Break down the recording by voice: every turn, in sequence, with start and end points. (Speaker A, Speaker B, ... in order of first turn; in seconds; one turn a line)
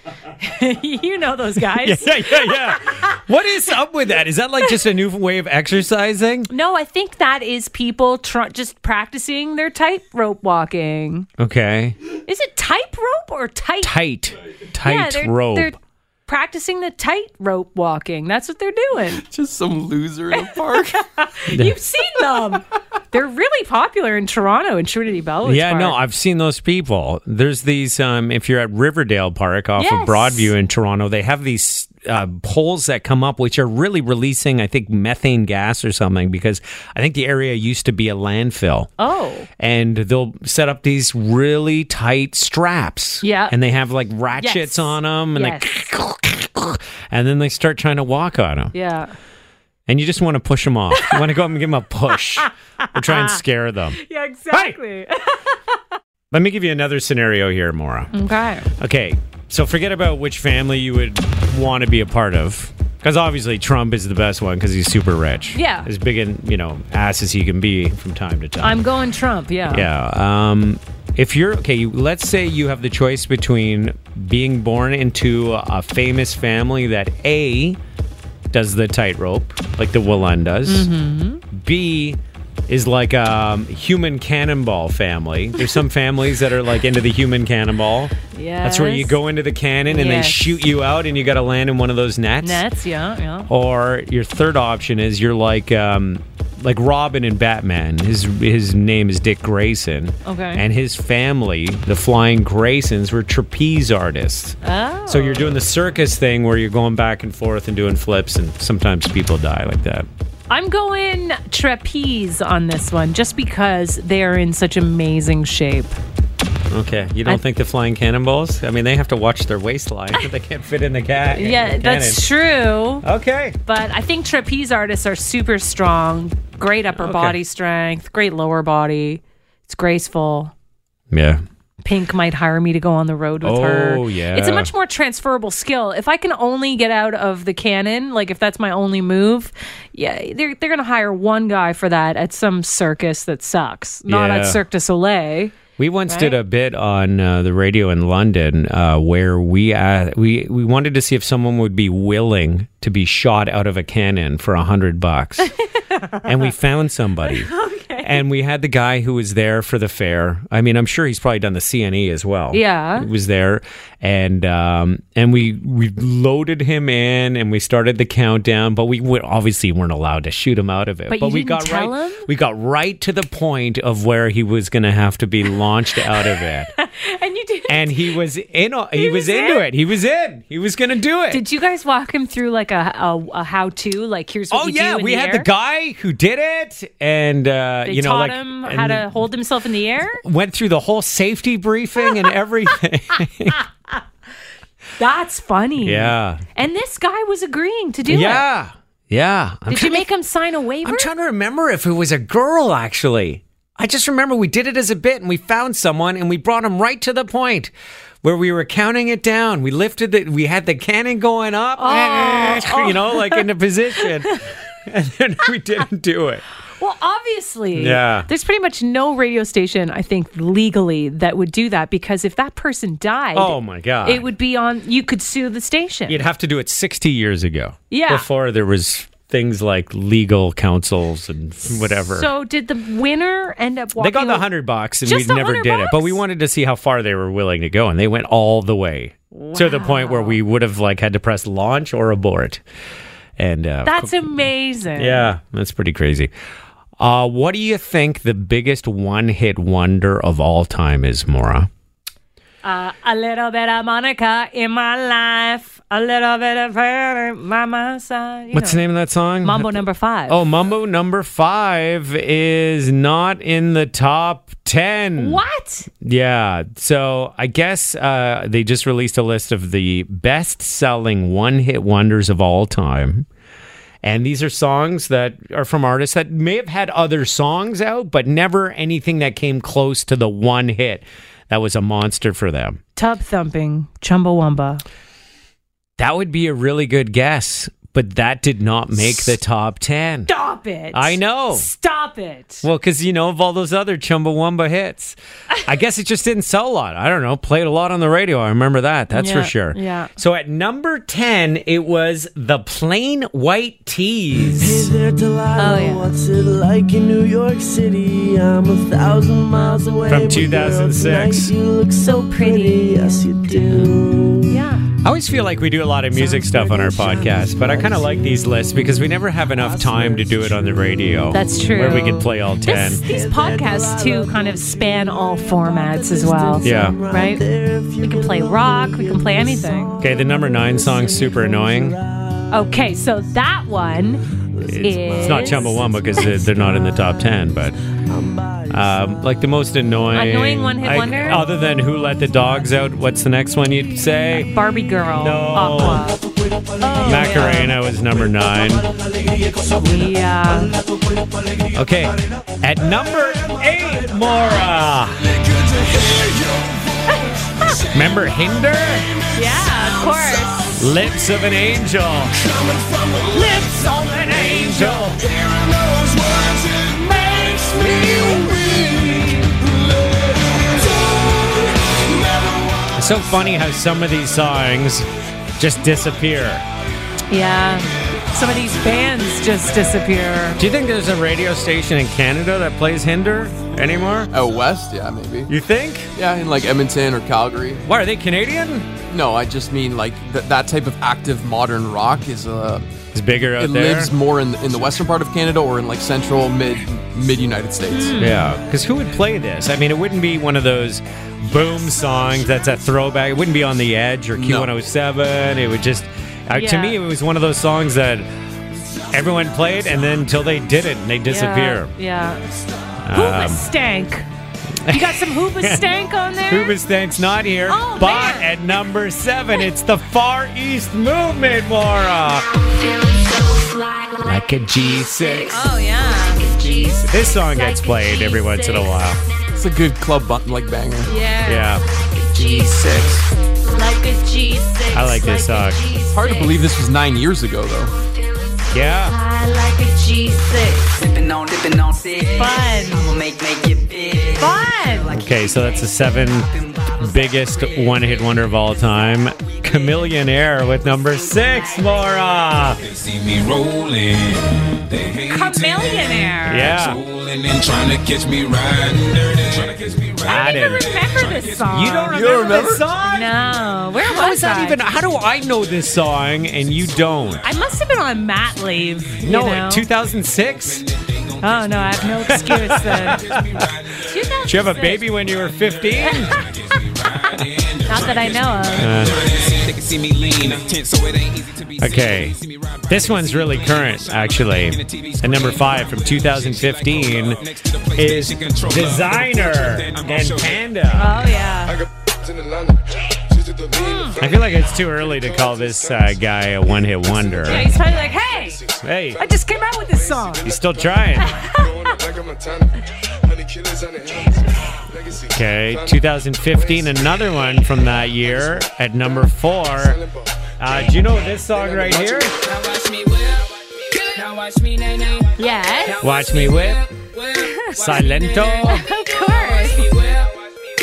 Speaker A: 0.4-3.2
Speaker B: 1.7-6.5
Speaker A: 6.5-11.3
Speaker B: 11.4-12.0
Speaker A: 12.3-14.0
Speaker B: 13.8-15.8
Speaker A: 14.8-19.2
Speaker C: 19.2-21.0
Speaker A: 20.4-26.0
Speaker B: 21.5-21.8
Speaker B: 25.4-38.9
Speaker A: 29.8-30.5
Speaker A: 39.0-39.5
Speaker B: 39.6-48.7
Speaker A: 43.2-43.5
Speaker A: 44.4-45.7
Speaker A: 48.7-49.1
Speaker B: 49.9-54.0
Speaker A: 52.4-53.4
Speaker A: 54.0-55.6
Speaker B: 54.5-54.8
Speaker B: 56.3-58.1
Speaker A: 58.1-58.7
Speaker B: 58.8-68.8
Speaker A: 65.5-65.9
Speaker A: 68.6-69.9
Speaker B: 69.7-77.8
Speaker B: 78.5-80.9
Speaker A: 80.7-81.4
Speaker B: 81.5-92.7
Speaker A: 88.3-89.2
Speaker A: 89.9-90.6
Speaker A: 92.4-93.5
Speaker B: 93.5-110.1
Speaker A: 100.2-100.6
Speaker A: 104.6-105.6
Speaker A: 110.5-116.0
Speaker B: 116.7-122.2
Speaker A: 121.3-123.0
Speaker B: 123.0-123.6
Speaker A: 123.7-130.5
Speaker B: 126.9-127.4
Speaker B: 131.1-131.4
Speaker A: 131.8-145.6
Speaker B: 133.4-134.7
Speaker B: 144.1-144.6
Speaker B: 145.8-155.5
Speaker A: 146.1-146.4
Speaker B: 156.2-176.7
Speaker A: 157.3-158.2
Speaker A: 162.5-163.1
Speaker A: 171.1-172.3
Speaker A: 176.2-178.0
Speaker B: 177.7-181.4
Speaker A: 179.0-179.7
Speaker A: 181.3-185.5
Speaker B: 184.5-189.2
Speaker A: 187.8-190.2
Speaker B: 190.1-193.6
Speaker A: 195.0-198.5
Speaker B: 195.8-196.4
Speaker B: 198.1-200.1
Speaker A: 199.7-201.1
Speaker B: 200.8-207.7
Speaker B: 208.2-216.4
Speaker A: 211.8-213.5
Speaker A: 214.0-214.4
Speaker A: 216.8-226.2
Speaker B: 217.8-218.3
Speaker B: 223.3-224.3
Speaker B: 226.1-232.3
Speaker A: 227.9-228.3
Speaker A: 232.1-234.5
Speaker B: 234.0-242.6
Speaker A: 235.0-236.2
Speaker A: 239.3-240.4
Speaker B: 243.4-244.4
Speaker A: 243.8-245.3
Speaker B: 245.0-246.3
Speaker B: 247.0-251.7
Speaker A: 252.6-258.8
Speaker B: 258.5-265.4
Speaker A: 259.4-260.4
Speaker A: 265.2-265.9
Speaker B: 266.0-273.3
Speaker B: 274.0-282.8
Speaker A: 283.0-284.8
Speaker B: 286.0-290.3
Speaker A: 290.3-292.7
Speaker B: 290.9-291.7
Speaker B: 292.6-304.9
Speaker A: 299.1-300.1
Speaker D: 304.6-314.5
Speaker A: 305.6-306.2
Speaker B: 310.1-311.5
Speaker A: 312.0-313.2
Speaker A: 314.5-314.9
Speaker B: 315.0-323.0
Speaker D: 316.1-318.3
Speaker D: 319.5-320.8
Speaker A: 321.3-327.4
Speaker D: 323.0-332.5
Speaker B: 326.6-327.0
Speaker A: 328.0-330.0
Speaker B: 330.0-332.0
Speaker A: 332.5-334.2
Speaker D: 334.5-336.4
Speaker B: 334.7-337.8
Speaker A: 334.8-336.3
Speaker D: 338.1-339.0
Speaker B: 338.7-344.5
Speaker A: 340.1-341.5
Speaker A: 344.3-346.2
Speaker B: 345.2-346.1
Speaker A: 346.8-347.8
Speaker B: 347.0-348.9
Speaker D: 349.3-350.1
Speaker A: 349.8-350.8
Speaker B: 351.7-355.4
Speaker A: 357.1-357.8
Speaker B: 357.9-359.1
Speaker A: 359.3-360.7
Speaker B: 360.8-362.5
Speaker A: 363.4-364.1
Speaker B: 363.6-365.2
Speaker B: 372.9-376.7
Speaker A: 377.3-380.6
Speaker B: 380.6-384.3
Speaker C: 384.3-385.5
Speaker B: 385.5-386.1
Speaker C: 386.1-387.8
Speaker B: 387.8-388.9
Speaker C: 389.1-392.9
Speaker B: 393.1-394.1
Speaker C: 393.4-398.2
Speaker A: 397.9-398.4
Speaker B: 398.2-408.3
Speaker C: 404.4-404.7
Speaker A: 406.5-407.0
Speaker B: 409.1-411.9
Speaker A: 411.3-412.4
Speaker B: 413.0-413.6
Speaker A: 413.1-414.3
Speaker B: 414.8-415.9
Speaker A: 414.9-416.8
Speaker B: 416.5-422.5
Speaker A: 417.7-418.6
Speaker E: 422.6-424.2
Speaker B: 424.2-425.8
Speaker A: 425.4-426.5
Speaker E: 426.4-427.0
Speaker B: 426.5-429.2
Speaker A: 427.4-429.1
Speaker C: 429.5-431.1
Speaker A: 431.1-431.8
Speaker B: 431.4-431.8
Speaker B: 432.4-433.1
Speaker C: 432.4-433.2
Speaker A: 433.7-436.6
Speaker B: 434.9-435.8
Speaker C: 436.1-437.9
Speaker E: 437.9-452.7
Speaker B: 438.7-439.2
Speaker A: 439.2-440.4
Speaker A: 442.4-443.1
Speaker A: 444.4-445.1
Speaker B: 445.1-452.8
Speaker F: 453.0-455.9
Speaker A: 455.2-456.9
Speaker B: 456.5-457.0
Speaker F: 456.8-461.6
Speaker B: 460.2-460.9
Speaker A: 460.2-464.8
Speaker B: 461.6-463.3
Speaker C: 462.1-462.9
Speaker B: 464.0-467.5
Speaker A: 467.4-469.9
Speaker B: 469.2-470.9
Speaker A: 471.4-473.2
Speaker F: 471.5-471.8
Speaker B: 472.2-473.7
Speaker F: 473.3-473.7
Speaker A: 474.0-475.1
Speaker B: 474.4-476.5
Speaker A: 476.0-476.4
Speaker A: 477.9-479.1
Speaker F: 477.9-482.1
Speaker B: 478.8-479.3
Speaker B: 481.8-491.2
Speaker F: 483.1-483.7
Speaker F: 485.2-485.7
Speaker F: 486.7-487.3
Speaker F: 487.9-489.3
Speaker F: 489.8-490.5
Speaker A: 490.9-491.8
Speaker A: 493.7-494.2
Speaker B: 494.2-497.7
Speaker A: 497.4-500.5
Speaker B: 498.8-499.2
Speaker B: 500.4-501.4
Speaker A: 501.2-502.0
Speaker B: 505.3-510.0
Speaker B: 510.6-512.4
Speaker A: 515.4-516.2
Speaker B: 516.0-517.0
Speaker A: 517.3-520.0
Speaker B: 517.6-518.9